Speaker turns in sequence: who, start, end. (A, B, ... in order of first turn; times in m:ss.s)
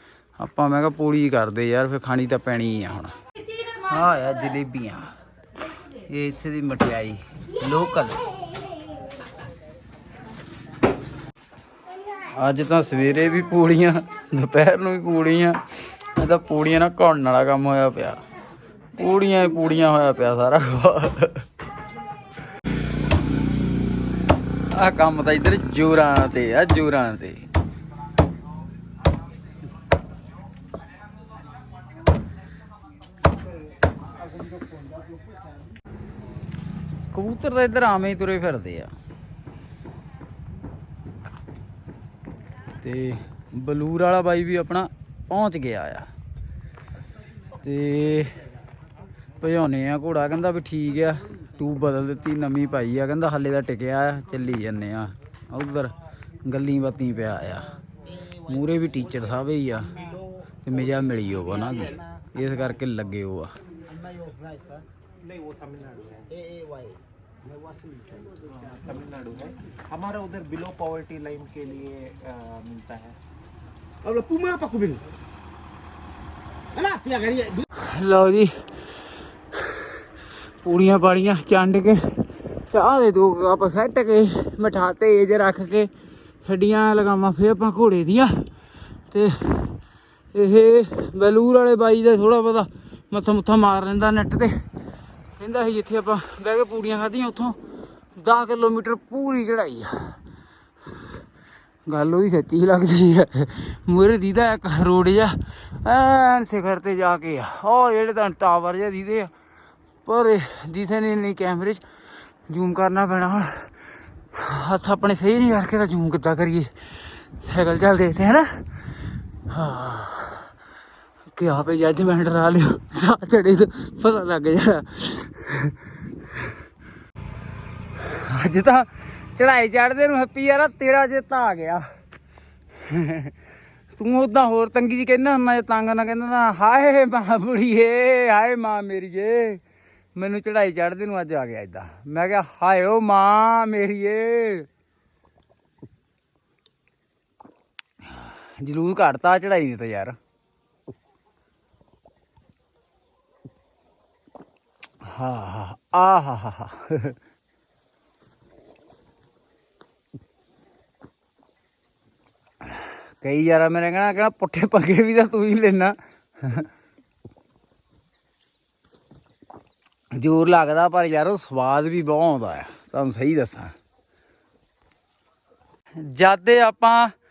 0:00.4-0:03.1 A
0:03.8-0:05.1 A
0:06.1-0:08.2 A
0:12.3-0:18.2 A
0:19.0-0:21.5 A
0:24.7-0:27.4 A
0:34.2-0:35.7 B
0:37.1-0:38.9 A
0:42.8-0:46.1 A
0:47.6-0:48.4 A
0:49.4-0:55.9 A
0:56.4-0:57.7 A
0:58.4-0:59.9 A
0:59.9-1:00.3 C
1:00.6-1:03.5 A
1:04.0-1:04.8 B
1:05.2-1:06.4 C
1:06.6-1:07.0 B
1:08.4-1:13.2 C
1:14.2-1:15.0 B
1:16.9-1:17.5 B
1:17.8-1:18.6 A
1:19.5-1:19.9 A
1:20.6-1:25.9 A
1:26.4-1:28.5 A
1:29.1-1:29.8 A
1:30.3-1:34.6 A
1:35.4-1:37.6 A
1:38.2-1:40.2 A
1:41.9-1:49.3 A
1:50.0-1:51.8 A
1:52.5-1:53.7 A
1:54.3-1:56.7 A
1:57.4-1:58.7 A
1:59.5-2:00.5 A
2:01.4-2:05.8 A
2:08.0-2:11.8 A
2:12.8-2:13.3 A
2:14.0-2:19.6 A
2:20.2-2:24.7 A
2:28.0-2:30.2 A
2:35.0-2:37.2 A
2:42.6-2:46.7 A
2:50.1-2:53.7 A
2:56.0-2:57.1 A